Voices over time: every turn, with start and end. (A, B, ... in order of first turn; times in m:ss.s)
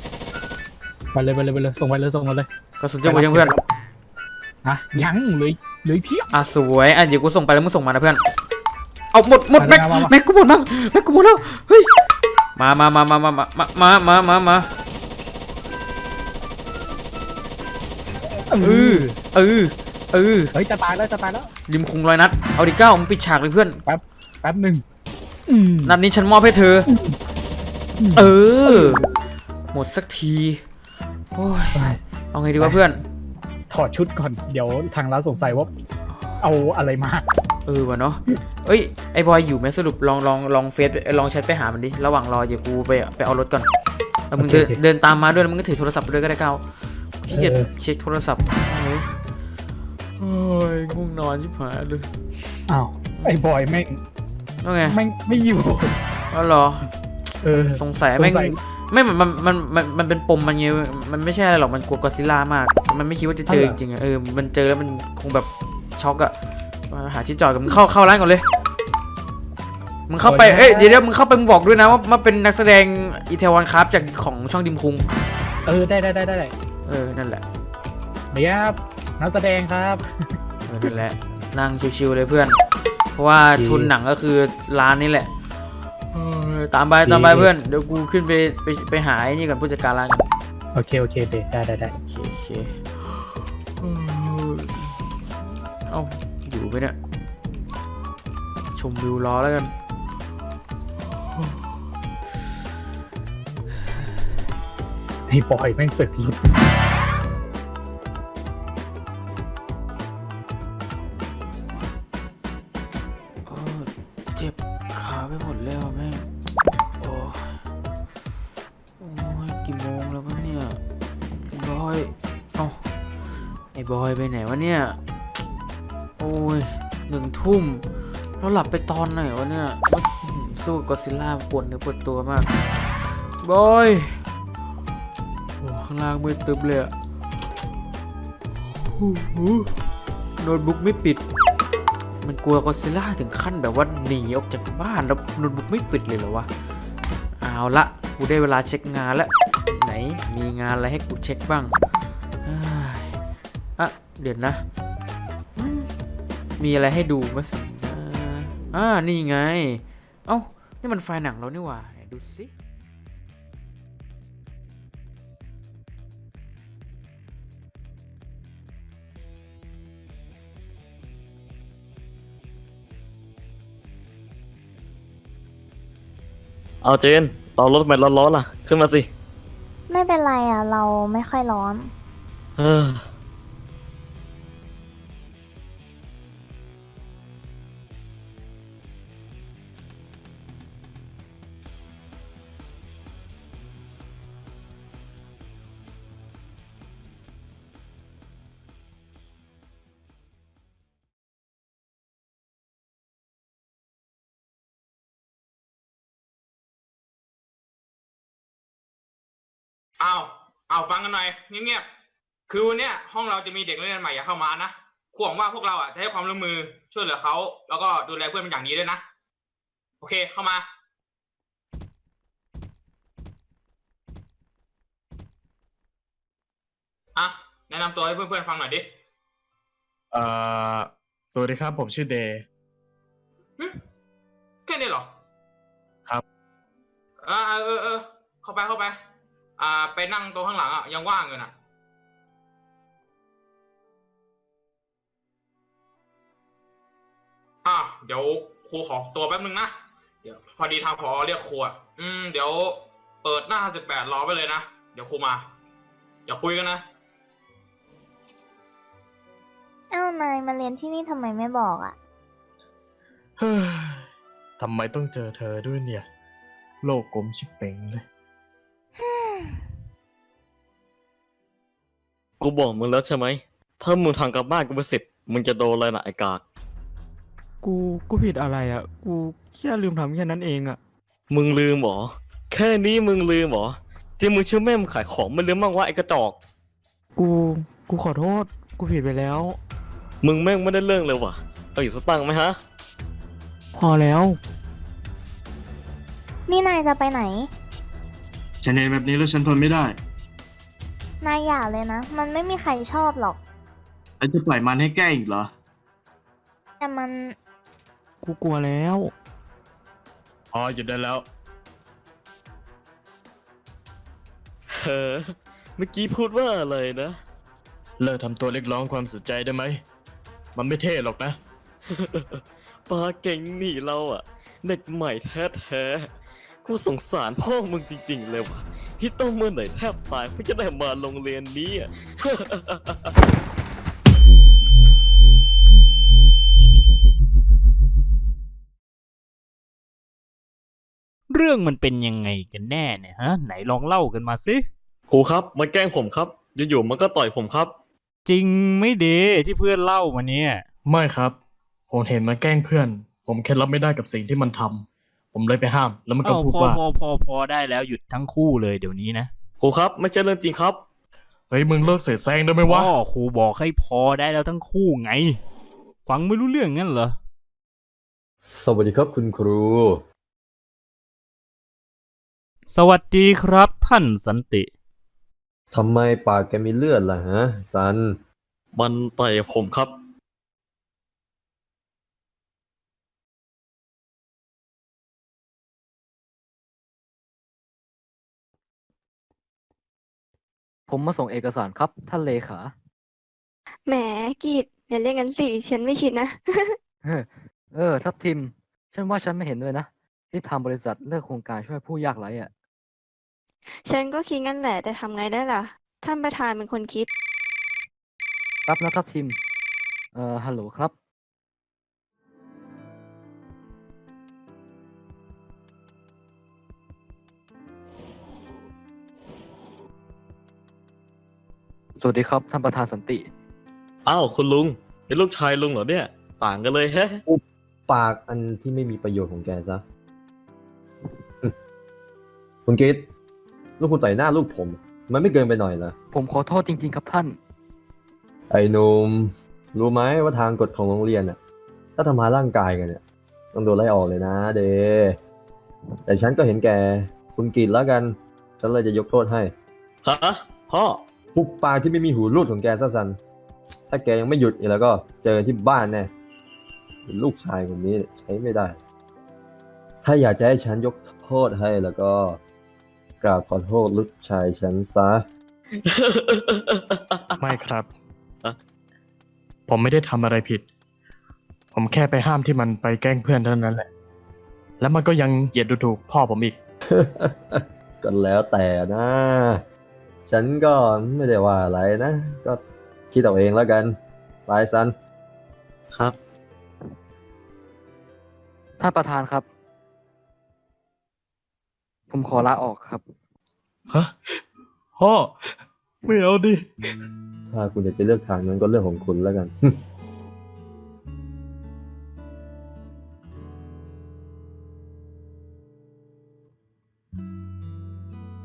0:01.1-0:02.5 A
0:02.8-0:03.6 B
0:03.0-0:03.6 A
0:04.6-0:06.3 A
0:06.3-0:08.2 B
0:09.1-0:11.9 B
0:09.6-0:10.1 A
0:12.6-0:14.7 B
0:18.5-0:19.2 A
0:18.6-0:20.5 B
0:20.5-0:21.5 A
0:21.7-0:23.8 B
0:23.9-0:24.8 A
0:25.5-0:26.0 A
0:25.9-0:26.9 B
0:26.9-0:27.2 A
0:28.0-0:29.2 A
0:28.2-0:29.0 B
0:29.7-0:30.6 B
0:31.3-0:33.0 B
0:31.7-0:32.0 A
0:33.7-0:35.7 A
0:36.4-0:37.2 A
0:37.7-0:43.7 B
0:44.3-0:46.6 B
0:44.4-0:44.8 A
0:47.2-0:49.0 B
0:47.3-0:47.7 A
0:50.2-0:52.1 B
0:52.7-0:54.0 A
0:54.6-0:55.0 B
0:54.9-0:56.0 A
0:56.3-0:56.9 B
0:57.4-0:58.6 A
0:57.5-1:06.3 B
1:03.5-1:03.8 A
1:06.9-1:08.4 B
1:10.1-1:15.1 B
1:10.2-1:11.0 A
1:15.6-1:16.5 A
1:16.9-1:17.4 B
1:18.3-1:20.0 A
1:20.7-1:22.6 B
1:23.1-1:25.3 B
1:23.5-1:23.9 A
1:26.1-1:30.2 B
1:27.0-1:27.5 A
1:30.7-1:31.9 A
1:32.0-1:32.7 B
1:33.8-1:34.8 B
1:35.9-1:37.0 B
1:38.8-1:39.7 B
1:45.3-1:46.4 A
1:53.5-1:56.3 B
1:57.0-1:57.5 B
1:59.0-2:00.8 B
2:01.5-2:02.8 B
2:03.7-2:05.0 B
2:06.2-2:07.8 B
2:08.4-2:12.5 B
2:13.4-2:14.2 B
2:15.6-2:16.9 B
2:18.8-2:19.7 B
2:20.4-2:21.2 B
2:22.2-2:26.5 B
2:27.4-2:31.7 B
2:32.4-2:33.2 B
2:33.8-2:34.6 B
2:35.6-2:35.9 B
2:36.6-2:42.5 B
2:56.8-2:59.1 C
2:59.9-3:01.9 D
3:02.6-3:03.0 C
3:30.0-3:31.8 E
3:32.5-3:39.0 E
3:40.0-3:40.6 E
3:47.2-3:48.8 E
3:50.1-3:52.4 F
3:54.7-3:55.1 E
3:57.2-3:59.0 E
3:59.6-4:01.5 E
4:07.6-4:09.7 E
4:10.2-4:15.4 E
4:16.3-4:16.8 E
4:19.9-4:22.0 D
4:23.4-4:24.0 F
4:24.6-4:26.1 F
4:26.8-4:28.0 F
4:29.0-4:29.6 D
4:32.4-4:36.4 C
4:37.6-4:40.8 G
4:41.3-4:46.4 C
4:47.2-4:49.6 G
4:50.2-4:52.6 C
4:53.7-4:54.4 G
4:56.5-4:57.5 D
4:58.6-5:00.0 F
5:01.2-5:03.4 D
5:04.2-5:05.5 F
5:06.8-5:07.4 D
5:08.2-5:09.1 G
5:10.5-5:11.2 F
5:14.7-5:17.2 C
5:18.0-5:19.8 F
5:20.6-5:21.4 F
5:21.9-5:26.1 C
5:26.6-5:33.1 C
5:41.3-5:44.7 H
5:45.1-5:47.8 C
5:48.3-5:50.6 H
5:50.9-5:51.4 F
5:51.9-5:56.8 F
5:56.2-5:59.3 H
5:59.6-6:00.8 C
6:01.5-6:03.0 F
6:02.6-6:05.4 H
6:06.1-6:07.2 H
6:08.4-6:10.0 I
6:12.7-6:14.7 H
6:15.7-6:18.2 I
6:18.7-6:20.0 C
6:30.9-6:32.7 J
6:33.8-6:36.8 K
6:37.0-6:42.5 J
6:43.7-6:47.1 K
6:48.7-6:49.4 J
6:50.1-6:50.9 J
7:02.0-7:03.3 J
7:04.0-7:07.2 C
7:07.3-7:09.8 I
7:12.7-7:13.1 I
7:13.8-7:15.9 I
7:16.1-7:17.4 J
7:18.5-7:21.4 I
7:22.0-7:23.0 I
7:23.5-7:25.2 I
7:26.1-7:29.5 I
7:30.0-7:31.0 C
7:31.4-7:33.2 I
7:33.9-7:36.1 I
7:37.1-7:38.8 I
7:40.0-7:42.4 I
7:43.2-7:45.2 I
7:46.0-7:47.0 C
7:47.4-7:47.9 F
7:49.7-7:50.6 F
7:51.7-7:53.9 F
7:54.8-7:56.6 F
7:56.9-7:59.6 I
8:00.3-8:04.9 I
8:08.8-8:09.5 J
8:12.1-8:13.1 J
8:13.9-8:14.4 F
8:15.0-8:16.7 F
8:17.5-8:19.8 I